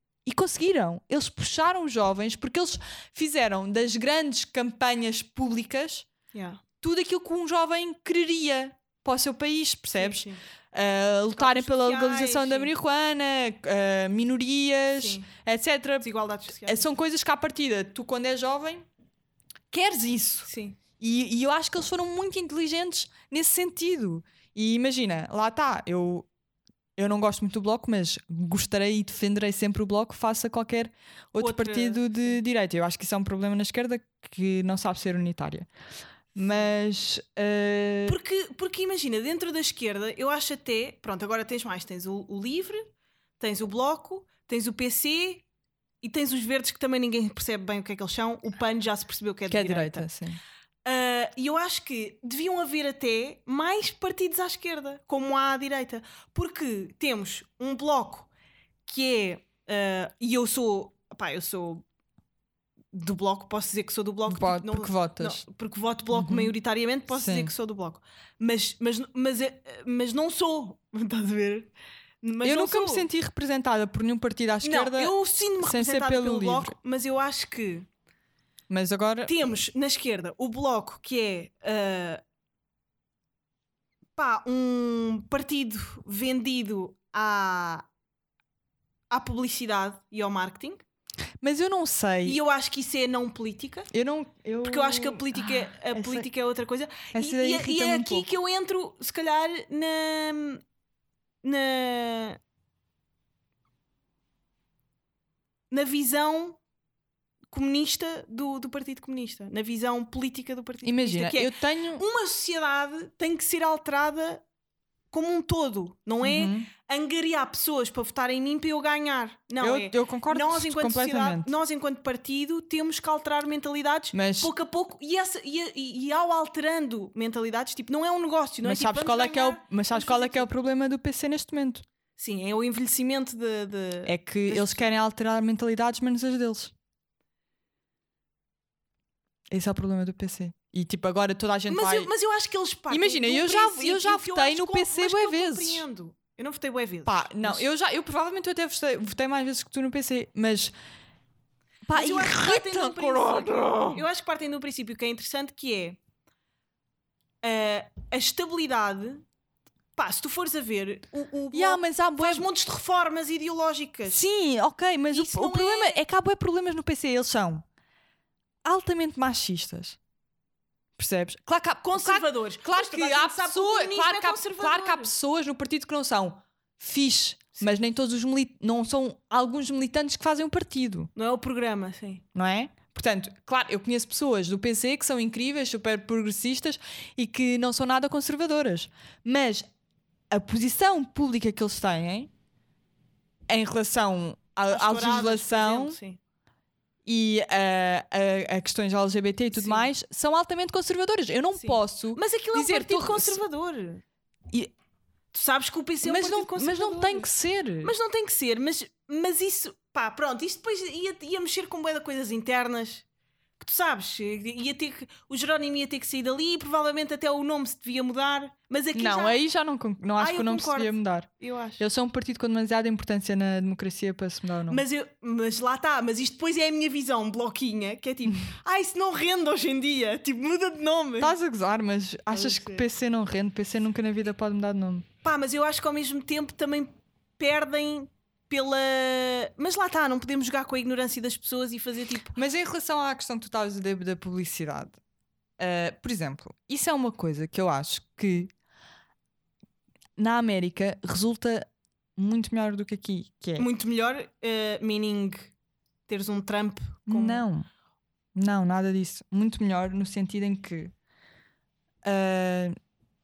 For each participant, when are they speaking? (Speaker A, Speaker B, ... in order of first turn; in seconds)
Speaker A: 0.2-6.1, 6.8-16.1, 16.6-18.9, 19.7-20.5, 21.0-26.3, 27.0-35.7, 36.3-38.2, 49.5-50.4, 64.3-65.4, 66.1-66.5, 67.1-67.5, 72.4-76.7, 78.7-79.3, 91.4-92.4, 93.9-96.3, 97.1-98.3, 110.8-112.0, 116.2-116.7, 119.6-121.5, 124.1-124.5, 128.6-131.8, 134.1-136.7, 139.5-142.1, 142.9-145.8, 147.1-150.7, 151.8-154.0, 161.5-162.5, 164.1-167.6, 168.6-170.0, 171.0-181.1, 182.3-189.7, 190.3-192.3, 193.5-196.0, 197.0-203.4, 206.0-207.9, 218.9-224.8, 231.2-235.1, 242.3-245.0, 245.6-248.5, 250.2-253.7, 257.1-257.7, 258.3-260.9, 262.0-262.7
Speaker B: 6.3-6.6, 10.0-10.4, 11.3-12.7, 14.9-15.3, 16.0-17.0, 20.4-20.8, 31.4-32.3, 36.4-36.7, 38.0-42.9, 43.4-45.4, 46.0-50.1, 50.8-58.3, 58.9-61.8, 62.9-73.0, 74.6-77.9, 79.2-82.2, 84.2-87.8, 89.1-90.8, 92.2-93.9, 94.6-100.6, 101.4-102.4, 105.7-106.6, 107.5-114.4, 115.1-130.5, 132.2-134.9, 141.7-147.6, 151.9-156.0, 157.4-159.2, 159.9-164.2, 165.1-166.0, 171.8-175.1, 181.2-182.2, 194.7-196.2, 199.5-199.9, 201.5-204.0, 205.3-207.3, 207.8-213.0, 213.6-219.4, 220.2-221.8, 224.7-231.3, 232.3-232.8, 235.2-242.3, 253.6-255.5, 256.1-257.4